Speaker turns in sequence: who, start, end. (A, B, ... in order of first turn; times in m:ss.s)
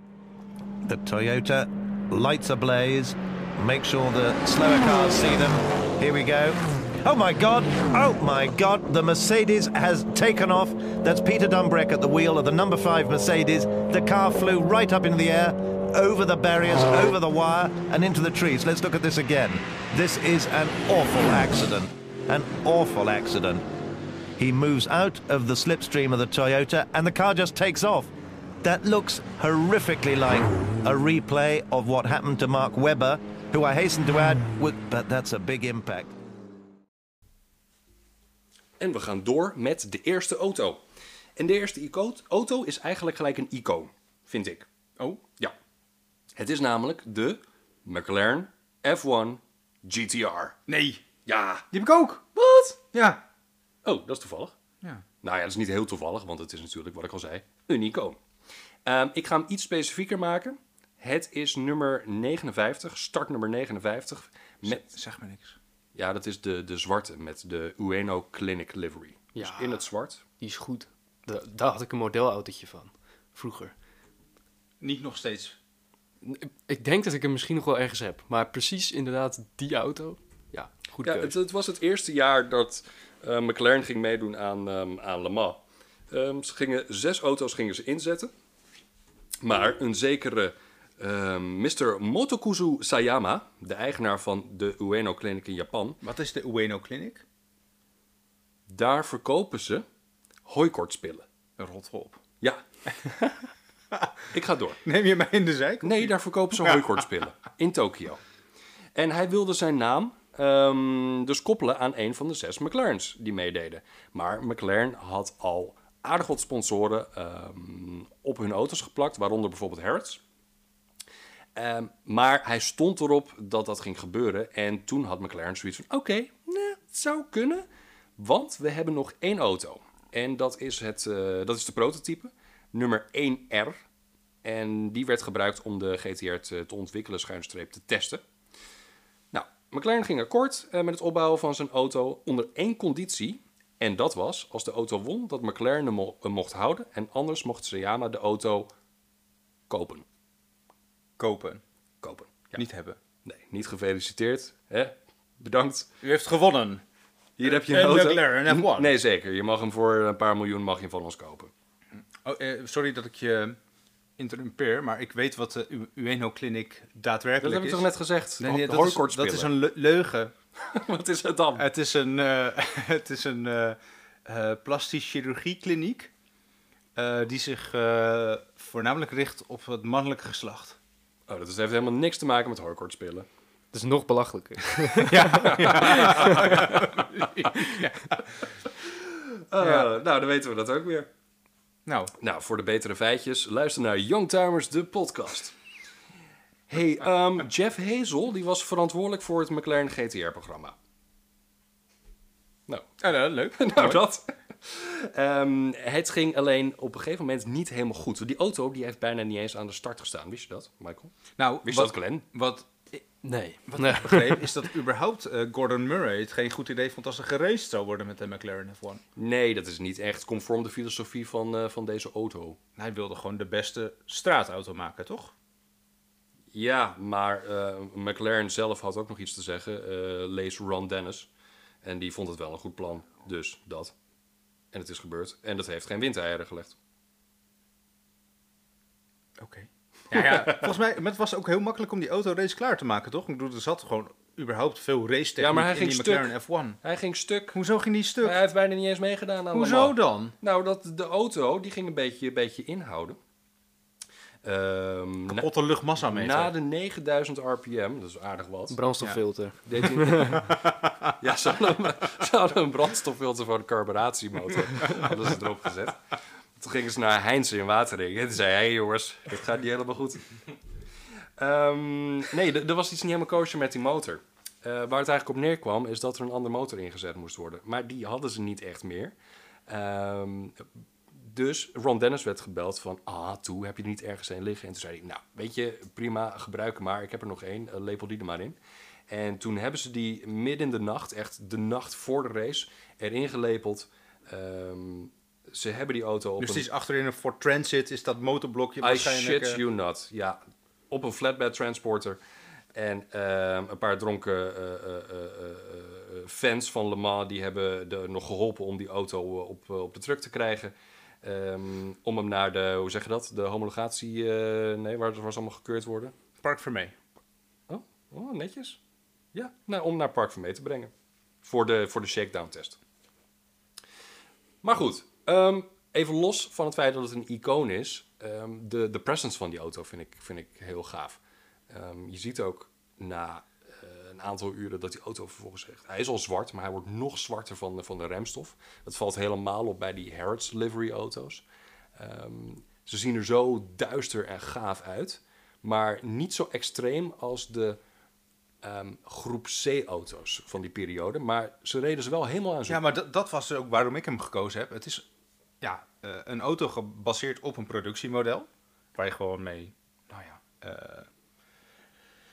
0:00.8-0:23.6 A
0:24.4-0:36.1 A
0:38.8-0:40.8 B
0:41.4-0:44.6 B
0:46.4-0:50.6 B
0:50.7-0:51.0 C
0:51.2-0:51.6 B
0:51.7-0:52.2 C
0:52.4-0:52.8 B
0:52.9-0:53.2 C
0:53.8-0:54.5 B
0:55.2-0:58.2 B
0:58.8-1:04.8 B
1:04.6-1:05.6 C
1:05.9-1:10.2 B
1:09.3-1:09.8 D
1:10.4-1:13.7 D
1:14.8-1:15.6 C
1:16.2-1:21.4 D
1:21.0-1:28.3 B
1:29.4-1:36.0 B
1:36.0-1:37.2 C
1:38.7-1:39.8 B
1:40.4-1:41.2 B
1:41.6-1:42.2 C
1:44.3-1:44.8 B
1:44.8-1:47.0 C
1:45.8-1:48.2 B
1:48.9-2:00.2 B
2:01.5-2:07.6 B
2:08.2-2:13.8 B
2:14.4-2:18.2 B
2:19.3-2:28.7 B
2:29.7-2:30.0 B
2:31.2-2:31.6 C
2:32.0-2:32.6 B
2:32.5-2:33.0 C
2:33.2-2:35.9 B
2:36.0-2:36.8 C
2:37.4-2:41.5 B
2:37.4-2:38.9 C
2:42.0-2:43.6 C
2:44.2-2:47.8 C
2:47.4-2:49.5 B
2:48.4-2:50.3 C
2:50.6-2:51.7 B
2:51.6-2:56.1 C
2:56.9-3:00.8 C
3:01.3-3:03.3 B
3:03.7-3:06.6 D
3:05.1-3:08.4 C
3:05.3-3:07.0 B
3:07.5-3:07.8 D
3:08.8-3:11.1 B
3:09.6-3:09.9 C
3:11.8-3:12.1 C
3:12.2-3:15.5 B
3:16.7-3:20.7 B
3:22.7-3:23.0 B
3:23.0-3:24.0 C
3:23.5-3:32.2 B
3:31.4-3:33.1 C
3:33.2-3:34.5 D
3:33.7-3:39.0 C
3:39.2-3:42.6 B
3:42.8-3:45.3 C
3:46.5-3:51.3 B
3:51.8-3:53.9 B
3:54.7-3:56.7 B
3:59.4-4:06.8 C
4:00.1-4:00.7 B
4:05.4-4:07.6 B
4:07.5-4:08.4 C
4:08.2-4:13.2 B
4:09.5-4:10.3 C
4:14.4-4:18.8 B
4:15.3-4:16.5 C
4:18.7-4:20.4 D
4:19.7-4:20.5 B
4:20.3-4:20.9 C
4:21.2-4:26.0 B
4:26.6-4:30.2 B
4:31.4-4:39.1 B
4:39.7-4:40.6 B
4:41.1-4:48.6 B
4:49.1-4:56.7 B
4:56.4-4:59.6 C
4:58.8-5:00.4 B
5:00.9-5:02.2 B
5:02.7-5:16.1 B
5:16.4-5:16.9 C
5:17.7-5:18.8 B
5:19.3-5:20.9 B
5:21.4-5:22.8 B
5:24.6-5:31.2 B
5:31.7-5:41.4 B
5:42.0-5:47.8 B
5:48.6-5:52.8 B
5:52.7-5:55.0 C
5:55.6-6:01.1 C